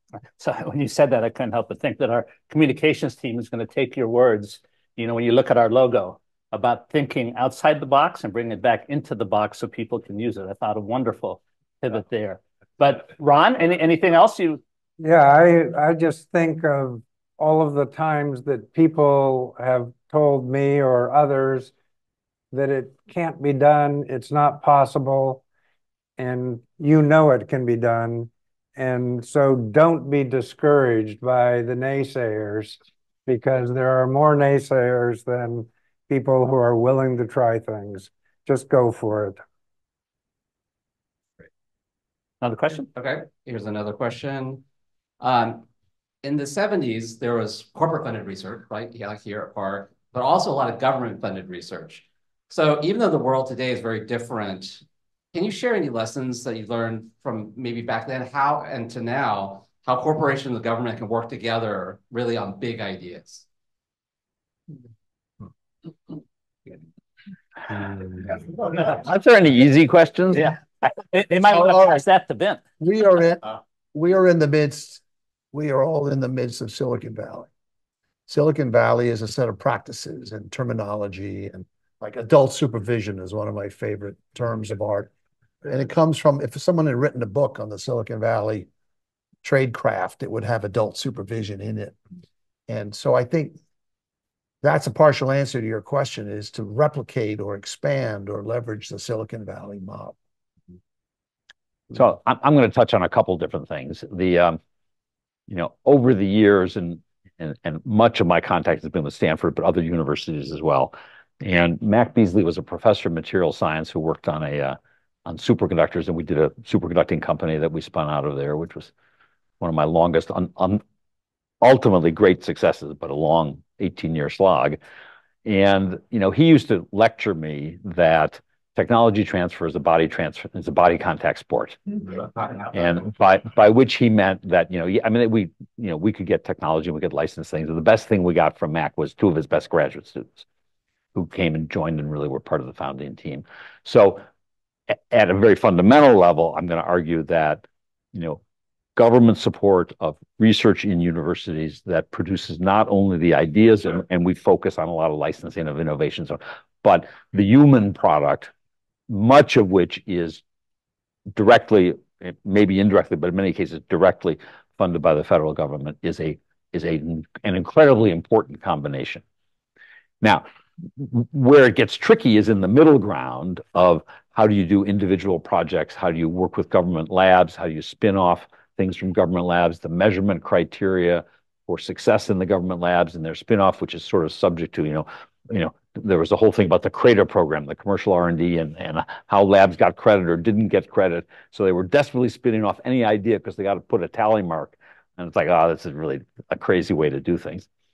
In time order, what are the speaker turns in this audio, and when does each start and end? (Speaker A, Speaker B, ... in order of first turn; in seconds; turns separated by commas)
Speaker A: 0.4-14.6, Speaker B: 15.0-21.7, Speaker B: 22.5-25.4, Speaker B: 26.2-39.4, Speaker A: 42.4-42.9, Speaker C: 43.0-44.6, Speaker C: 45.2-45.6, Speaker C: 46.2-63.5, Speaker D: 68.7-70.9, Speaker A: 71.0-72.6, Speaker E: 71.5-72.0, Speaker E: 72.8-75.0, Speaker E: 75.5-77.5, Speaker E: 78.3-85.1, Speaker E: 85.6-88.7, Speaker E: 89.4-92.0, Speaker E: 92.7-93.6, Speaker E: 94.6-100.2, Speaker D: 101.9-104.6, Speaker D: 105.5-118.9, Speaker D: 119.6-120.8, Speaker D: 121.6-124.8, Speaker D: 125.4-131.8, Speaker D: 132.6-140.4, Speaker D: 141.1-144.2, Speaker D: 144.9-148.4, Speaker D: 148.9-158.5, Speaker D: 159.1-160.4, Speaker D: 161.3-169.2, Speaker D: 170.2-197.7